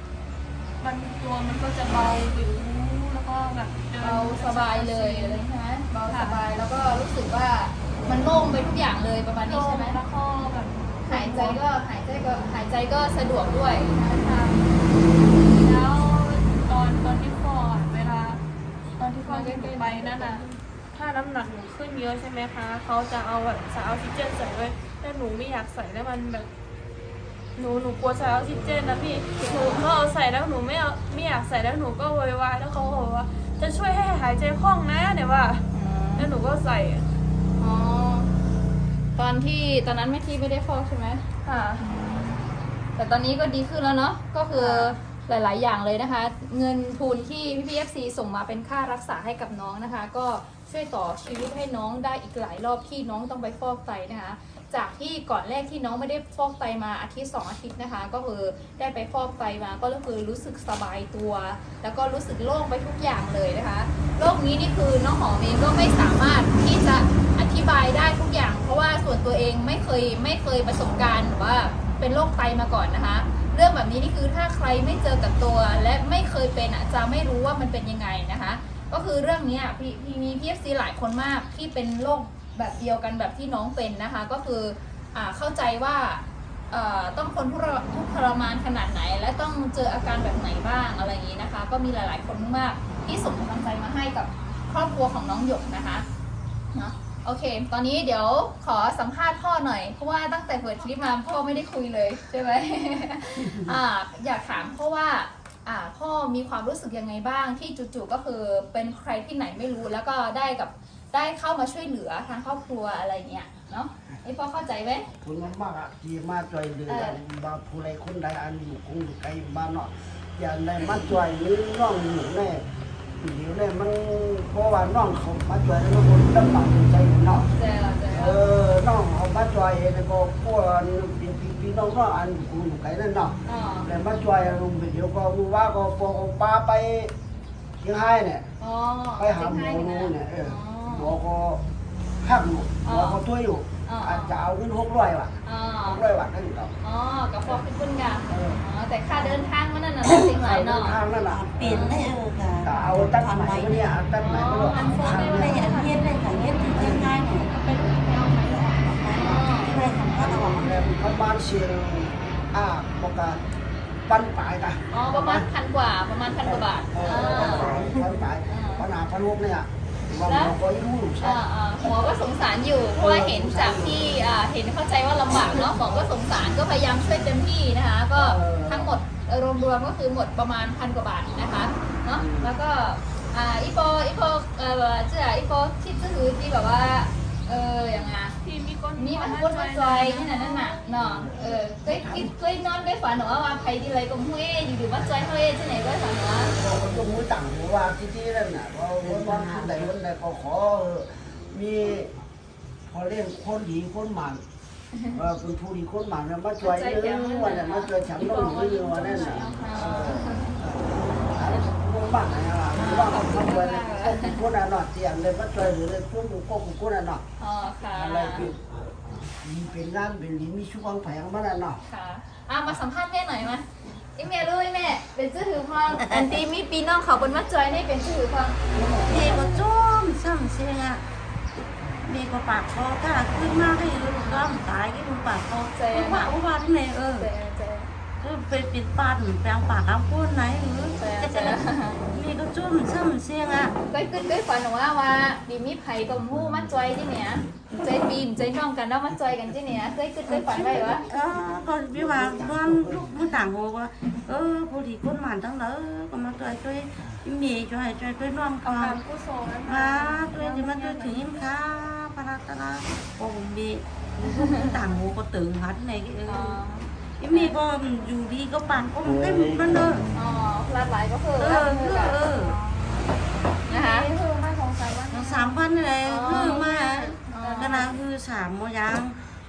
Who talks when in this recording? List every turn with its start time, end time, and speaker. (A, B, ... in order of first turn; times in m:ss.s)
0:00.8-0:05.4 A
0:04.0-0:10.0 B
0:06.1-0:06.4 A
0:09.4-0:11.6 A
0:11.1-0:14.3 B
0:14.0-0:14.7 A
0:15.5-0:18.4 A
0:19.0-0:26.5 A
0:19.2-0:20.5 B
0:27.6-0:37.1 A
0:29.4-0:29.8 B
0:35.7-0:36.3 B
0:37.6-0:38.3 B
0:39.2-0:41.2 B
0:41.4-0:41.8 A
0:41.8-0:42.4 B
0:43.0-1:36.1 B
0:44.6-0:45.0 A
1:36.7-1:55.1 B
1:55.2-2:02.6 C
1:56.9-1:57.2 B
2:03.2-2:07.5 C
2:07.4-2:08.4 B
2:08.1-2:17.2 C
2:13.5-2:13.9 B
2:17.8-2:18.5 C
2:18.6-2:21.1 B
2:19.2-2:21.6 C
2:22.2-2:26.7 C
2:22.8-2:23.2 B
2:23.9-2:24.4 B
2:25.4-2:26.0 B
2:26.8-2:31.0 B
2:28.3-2:28.6 C
2:30.0-2:34.0 D
2:30.4-2:32.0 C
2:31.6-2:32.1 B
2:32.6-2:35.7 C
2:34.2-2:35.1 B
2:34.6-2:36.2 A
2:34.8-2:40.9 D
2:36.8-2:37.0 C
2:37.6-2:37.8 A
2:38.3-2:38.5 B
2:39.1-2:40.0 B
2:39.2-2:43.4 C
2:44.1-2:45.5 C
2:44.9-2:48.8 B
2:46.4-2:51.4 C
2:47.3-2:48.0 D
2:50.3-2:50.5 B
2:51.2-3:08.4 B
2:53.0-2:54.1 C
2:55.4-2:55.9 C
2:58.1-2:58.9 C
3:02.1-3:02.5 C
3:08.4-3:10.9 A
3:09.0-3:16.6 B
3:11.0-3:12.3 C
3:15.0-3:15.3 C
3:16.6-3:22.2 C
3:19.0-3:19.9 D
3:22.9-3:24.4 C
3:25.1-3:37.2 C
3:26.6-3:27.9 B
3:28.1-3:30.3 A
3:29.6-3:30.5 B
3:32.7-3:34.4 B
3:37.4-3:38.5 B
3:37.9-3:41.8 C
3:41.9-3:49.6 B
3:48.7-3:49.4 C
3:49.1-3:51.1 D
3:52.0-3:57.3 D
3:54.2-3:54.4 B
3:55.7-3:56.3 B
3:57.1-3:57.9 B
3:58.2-4:03.8 D
4:01.0-4:02.0 B
4:03.9-4:11.0 B
4:10.3-4:19.0 D
4:10.6-4:11.2 C
4:11.9-4:13.3 C
4:18.6-4:21.3 A
4:19.6-4:30.1 D
4:24.2-4:24.8 B
4:26.3-4:27.6 B
4:29.1-4:29.9 C
4:30.1-4:33.1 B
4:31.4-4:32.6 D
4:33.7-4:35.6 A
4:33.7-4:34.1 B
4:35.1-4:39.2 D
4:36.0-4:36.7 B
4:36.2-4:37.9 A
4:37.2-4:37.9 B